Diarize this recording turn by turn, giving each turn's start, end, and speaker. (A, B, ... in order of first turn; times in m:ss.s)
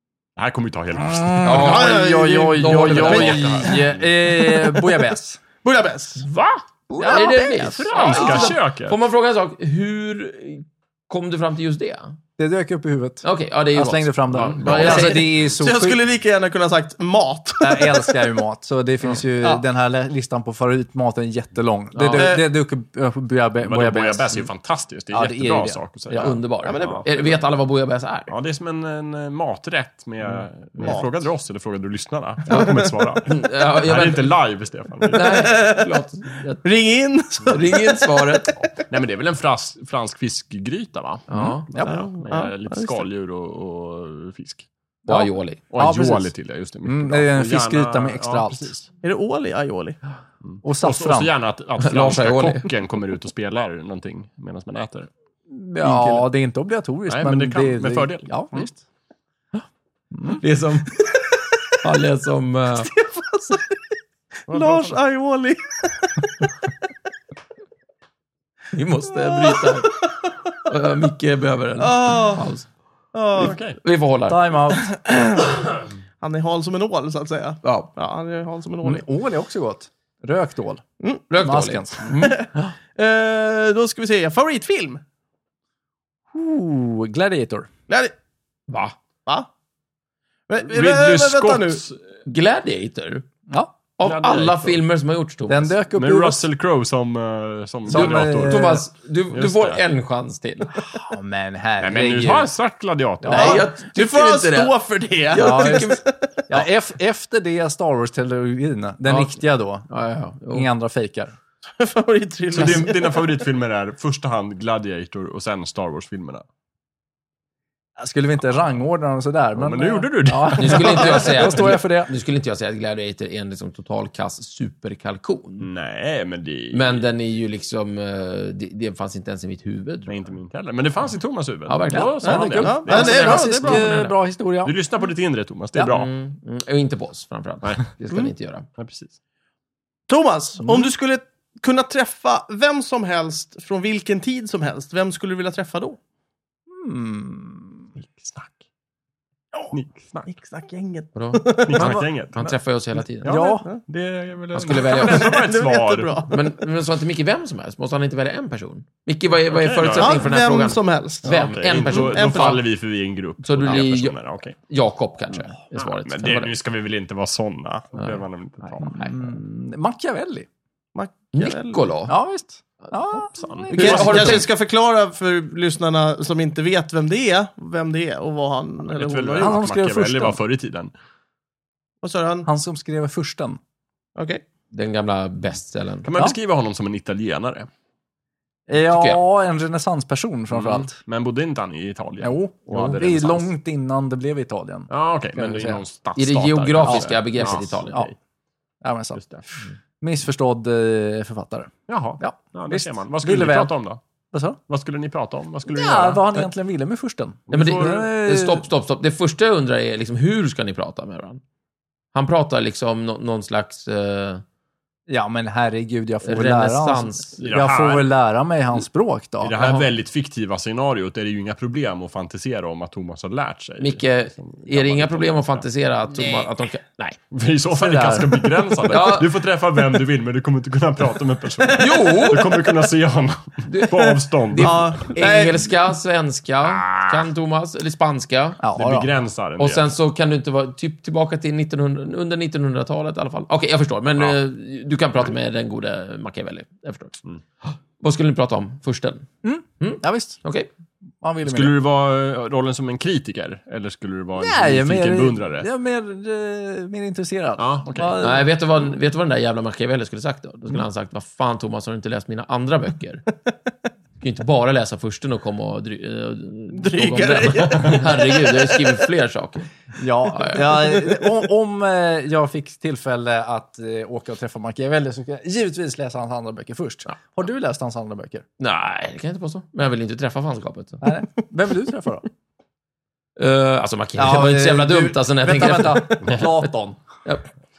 0:00.4-0:02.0 A
0:01.0-0:05.4 B
0:01.4-0:03.7 C
0:01.6-0:03.8 D
0:02.6-0:04.1 A
0:04.5-0:05.0 D
0:05.6-0:06.2 D
0:06.2-0:12.2 C
0:06.9-0:08.5 B
0:07.0-0:08.5 D
0:07.8-0:09.0 A
0:12.4-0:16.0 B
0:13.2-0:15.4 C
0:14.6-0:15.1 A
0:14.8-0:18.3 D
0:17.6-0:24.5 B
0:22.0-0:22.3 C
0:22.1-0:22.5 D
0:23.6-0:27.0 A
0:25.1-0:26.3 B
0:26.1-0:28.3 C
0:26.6-0:27.4 D
0:28.3-0:35.4 A
0:30.8-0:31.2 D
0:32.5-0:34.4 C
0:32.5-0:32.9 D
0:35.1-0:35.9 D
0:35.1-0:36.6 C
0:36.6-0:38.6 D
0:37.5-0:38.6 C
0:38.9-0:44.7 A
0:41.3-0:41.7 C
0:41.4-0:41.9 B
0:41.8-0:43.0 D
0:45.0-0:48.9 B
0:45.1-0:45.6 C
0:45.7-0:48.7 A
0:49.0-0:50.0 D
0:50.4-0:55.1 A
0:50.6-0:51.3 B
0:51.8-0:52.7 C
0:55.7-0:58.8 B
0:57.1-0:58.7 A
1:00.1-1:00.4 B
1:00.4-1:01.0 C
1:01.8-1:02.9 C
1:02.9-1:03.9 D
1:04.5-1:06.3 D
1:04.5-1:05.0 A
1:08.7-1:10.0 C
1:09.2-1:09.9 D
1:10.6-1:12.7 C
1:11.8-1:12.5 D
1:13.1-1:13.6 D
1:13.4-1:13.8 A
1:13.8-1:14.7 C
1:14.3-1:14.9 B
1:14.9-1:15.7 D
1:16.2-1:19.0 D
1:18.8-1:20.8 B
1:21.3-1:22.4 C
1:21.4-1:22.5 B
1:22.1-1:25.0 D
1:26.3-1:27.7 B
1:28.7-1:29.0 C
1:30.5-1:31.8 D
1:30.7-1:32.0 A
1:32.3-1:33.3 C
1:33.5-1:33.7 B
1:34.0-1:35.8 C
1:34.0-1:34.8 A
1:35.5-1:36.5 B
1:35.9-1:39.8 A
1:37.9-1:38.9 B
1:37.9-1:40.8 C
1:40.9-1:42.5 B
1:41.8-1:43.6 A
1:43.2-1:43.6 B
1:43.3-1:44.8 C
1:43.3-1:46.5 D
1:45.3-1:46.0 C
1:45.4-1:46.0 B
1:46.5-1:49.9 B
1:49.1-1:50.7 C
1:50.5-1:51.4 B
1:51.8-1:53.4 D
1:52.5-1:56.4 A
1:58.0-2:02.1 B
1:59.6-2:01.3 A
2:00.6-2:05.7 C
2:05.6-2:07.0 A
2:06.7-2:10.3 C
2:10.1-2:13.9 A
2:11.7-2:14.2 C
2:11.9-2:14.8 B
2:12.2-2:13.8 D
2:14.6-2:16.1 A
2:15.8-2:18.7 C
2:18.8-2:19.1 A
2:20.1-2:26.0 D
2:20.6-2:20.9 B
2:26.7-2:27.9 B
2:28.0-2:28.6 A
2:29.7-2:30.3 A
2:30.3-2:31.9 D
2:31.2-2:33.4 C
2:31.6-2:32.5 A
2:33.2-2:33.7 B
2:33.2-2:36.2 A
2:34.5-2:35.4 C
2:34.9-2:36.4 D
2:36.3-2:42.7 C
2:39.5-2:40.3 A
2:39.9-2:42.6 D
2:41.2-2:44.6 A
2:43.4-2:46.5 C
2:45.8-2:49.0 A
2:48.0-2:49.4 C
2:48.8-2:50.5 B
2:51.0-2:51.9 D
2:51.3-2:52.2 C
2:52.1-2:54.4 B
2:53.4-2:54.3 A
2:53.7-2:54.5 C
2:53.8-2:59.6 D
2:58.9-3:00.9 A
2:59.4-3:00.4 B
3:02.0-3:02.5 D
3:02.4-3:03.6 B
3:04.2-3:04.4 D
3:04.7-3:06.1 C
3:06.0-3:07.7 A
3:08.7-3:11.0 B
3:08.8-3:09.2 C
3:10.5-3:13.5 A
3:12.2-3:15.8 B
3:14.9-3:18.1 A
3:16.2-3:18.1 C
3:16.8-3:18.1 B
3:18.8-3:19.2 B
3:19.2-3:19.4 A
3:20.0-3:23.7 B
3:21.9-3:24.0 A
3:24.3-3:24.6 B
3:24.7-3:26.5 A
3:25.7-3:28.7 B
3:27.5-3:28.0 A
3:27.5-3:31.4 C
3:32.1-3:34.4 C
3:35.1-3:39.6 B
3:36.2-3:37.5 C
3:37.4-3:38.1 A
3:39.4-3:45.6 A
3:39.6-3:39.9 C
3:43.8-3:47.2 C
3:47.3-3:55.1 A
3:47.7-3:48.9 B
3:48.9-3:49.3 C
3:51.8-3:52.7 C
3:53.7-3:58.6 C
3:54.6-3:55.7 D
3:56.6-3:57.2 A
3:58.6-3:59.1 B
3:58.8-3:59.9 A
3:59.6-4:09.3 C
4:09.4-4:10.4 B
4:09.8-4:10.7 C
4:11.2-4:11.8 B
4:11.4-4:15.7 A
4:14.4-4:18.5 B
4:17.6-4:18.2 A
4:18.2-4:23.2 C
4:24.2-4:29.7 C
4:26.7-4:28.9 D
4:30.0-4:38.4 B
4:30.3-4:30.9 C
4:38.6-4:41.1 C
4:41.0-4:42.2 B
4:43.4-4:46.7 C
4:44.2-4:47.0 B